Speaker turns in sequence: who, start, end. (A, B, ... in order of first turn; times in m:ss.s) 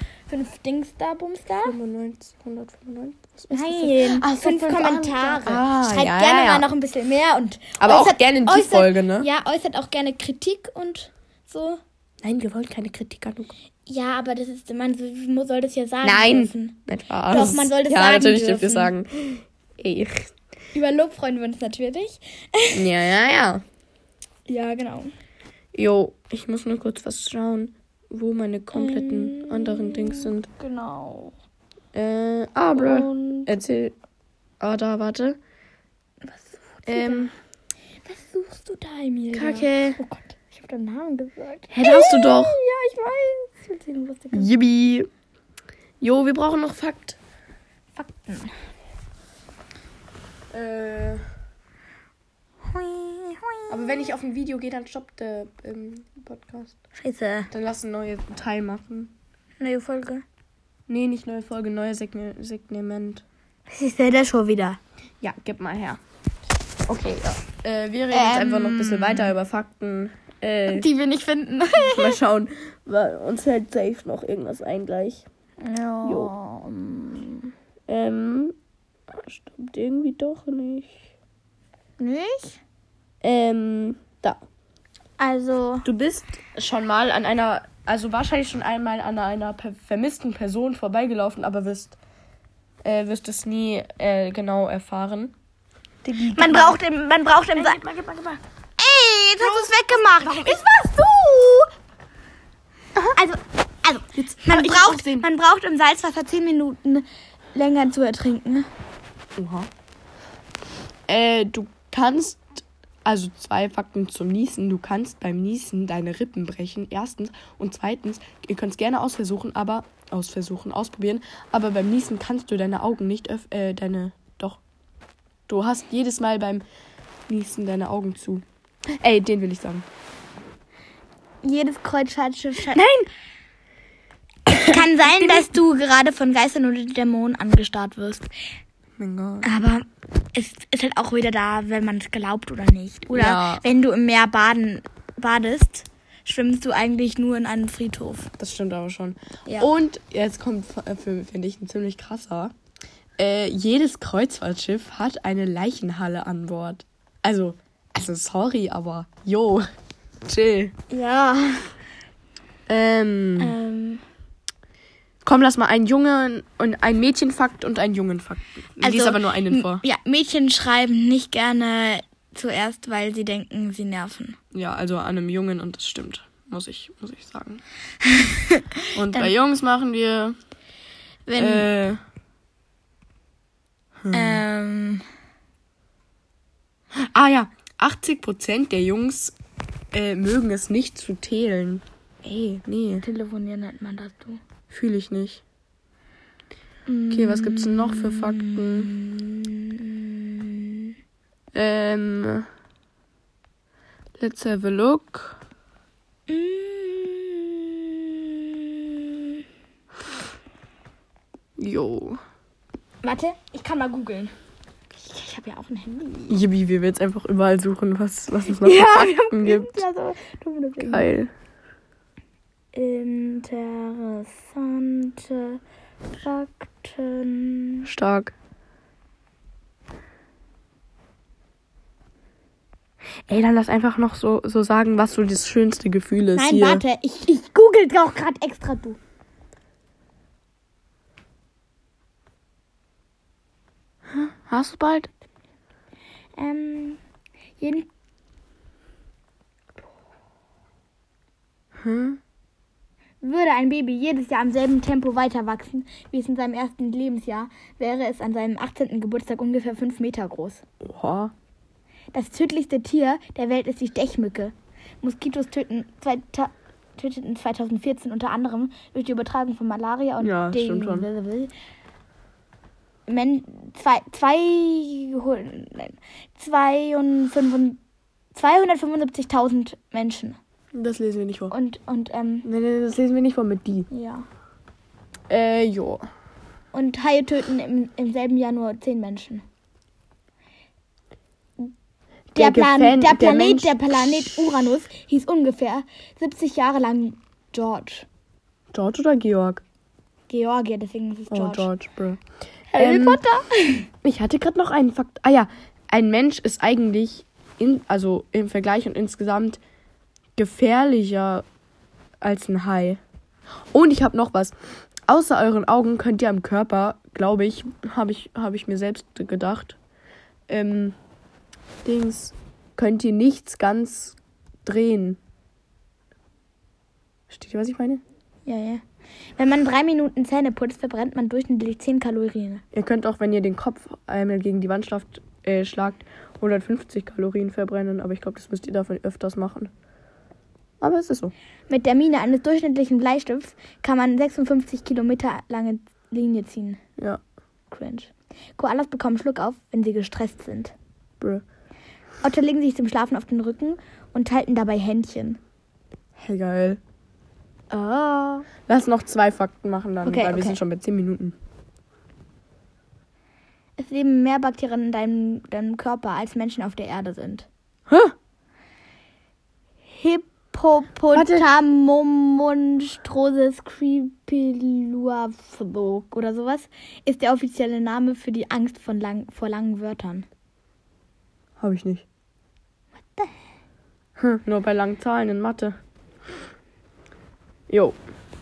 0:00.3-0:01.8 A
0:01.6-0:06.7 B
0:03.5-0:11.8 A
0:07.8-0:09.3 B
0:12.2-0:13.5 B
0:13.9-0:18.9 A
0:16.0-0:20.3 B
0:20.7-0:22.9 A
0:22.7-0:23.6 B
0:24.5-0:25.1 A
0:25.7-0:30.5 B
0:28.7-0:31.3 A
0:31.9-0:33.9 B
0:32.8-0:33.5 A
0:34.6-0:35.4 B
0:36.2-0:37.3 A
0:36.9-0:37.3 B
0:38.0-0:44.5 A
0:39.3-0:40.0 B
0:41.7-0:42.6 B
0:44.3-0:45.1 B
0:46.0-0:47.2 B
0:48.0-0:48.5 A
0:50.5-0:51.2 B
0:52.6-0:54.0 A
0:53.7-0:56.7 B
0:57.0-0:57.5 A
0:57.5-0:59.1 B
0:59.6-1:00.2 A
1:00.9-1:03.2 B
1:03.7-1:04.8 A
1:05.2-1:06.0 B
1:06.9-1:10.9 B
1:08.1-1:09.3 A
1:10.7-1:12.2 A
1:11.8-1:15.2 B
1:15.6-1:17.5 A
1:16.0-1:16.3 B
1:17.9-1:18.5 B
1:19.1-1:21.1 B
1:22.0-1:22.6 A
1:23.2-1:24.4 B
1:25.2-1:25.9 A
1:25.8-1:32.0 B
1:32.8-1:35.3 B
1:36.0-1:36.8 B
1:36.3-1:37.8 A
1:37.5-1:38.4 B
1:38.8-1:41.7 A
1:39.4-1:40.6 B
1:43.1-1:48.7 A
1:44.2-1:45.3 B
1:49.4-1:49.7 B
1:51.1-2:04.6 B
2:05.5-2:06.6 B
2:07.3-2:08.4 B
2:09.0-2:09.8 B
2:11.4-2:12.8 A
2:12.7-2:13.1 B
2:14.5-2:18.3 A
2:14.6-2:15.4 B
2:19.0-2:19.5 B
2:19.4-2:28.3 A
2:23.1-2:23.6 B
2:28.4-2:32.5 B
2:29.4-2:29.7 A
2:33.2-2:39.6 B
2:40.2-2:40.7 B
2:40.9-2:41.7 A
2:42.7-2:43.5 B
2:43.4-2:44.0 A
2:45.2-2:49.8 B
2:48.8-2:54.4 A
2:54.5-2:57.6 B
2:58.2-2:59.3 A
2:58.9-3:00.4 B
3:01.2-3:01.7 A
3:01.4-3:02.0 B
3:04.0-3:04.4 B
3:04.1-3:05.0 A
3:06.9-3:09.3 B
3:09.9-3:13.0 B
3:13.0-3:14.4 A
3:14.7-3:15.4 B
3:16.9-3:20.9 A
3:17.1-3:18.9 B
3:21.5-3:22.5 B
3:24.2-3:25.4 B
3:26.3-3:29.4 A
3:31.6-3:32.2 B
3:33.0-3:34.3 A
3:35.0-3:36.4 A
3:36.3-3:39.8 B
3:38.5-3:41.1 A
3:40.8-3:41.3 B
3:42.7-3:45.6 A
3:46.1-3:47.9 A
3:47.8-3:48.3 B
3:53.3-3:56.8 B
3:56.3-3:59.0 A
4:04.1-4:05.1 B
4:06.4-4:07.0 A
4:07.6-4:07.9 A
4:11.8-4:12.2 B
4:13.2-4:20.6 A
4:20.8-4:21.3 B
4:22.1-4:31.5 A
4:30.2-4:31.1 B
4:33.1-4:37.8 A
4:38.3-4:40.4 A
4:40.7-4:41.5 B
4:41.5-4:42.5 A
4:42.4-4:43.9 B
4:43.9-4:44.2 A
4:45.3-4:46.0 B
4:46.7-4:49.4 A
4:52.3-4:54.2 B
4:52.4-4:58.0 A
4:58.7-4:59.6 B
5:00.3-5:01.7 A
5:01.3-5:02.2 B
5:02.7-5:03.9 A
5:02.7-5:03.2 B
5:04.0-5:09.6 B
5:10.4-5:11.4 B
5:12.2-5:13.0 B
5:13.7-5:14.5 B
5:15.1-5:19.8 B
5:20.5-5:21.0 B
5:21.8-5:25.2 B
5:27.3-5:28.0 B
5:28.4-5:28.8 A
5:29.4-5:32.6 A
5:32.7-5:39.7 B
5:40.8-5:41.3 B
5:41.7-5:46.8 A
5:47.7-5:50.7 A
5:52.2-5:55.4 A
5:56.2-5:56.8 B
5:57.7-5:58.5 A
5:58.7-6:01.4 B
6:00.0-6:00.6 A
6:03.8-6:07.5 A
6:07.9-6:08.1 B
6:09.9-6:20.2 A
6:11.1-6:11.4 B
6:21.6-6:22.0 B
6:23.0-6:23.3 A
6:24.2-6:25.8 B
6:27.7-6:28.0 B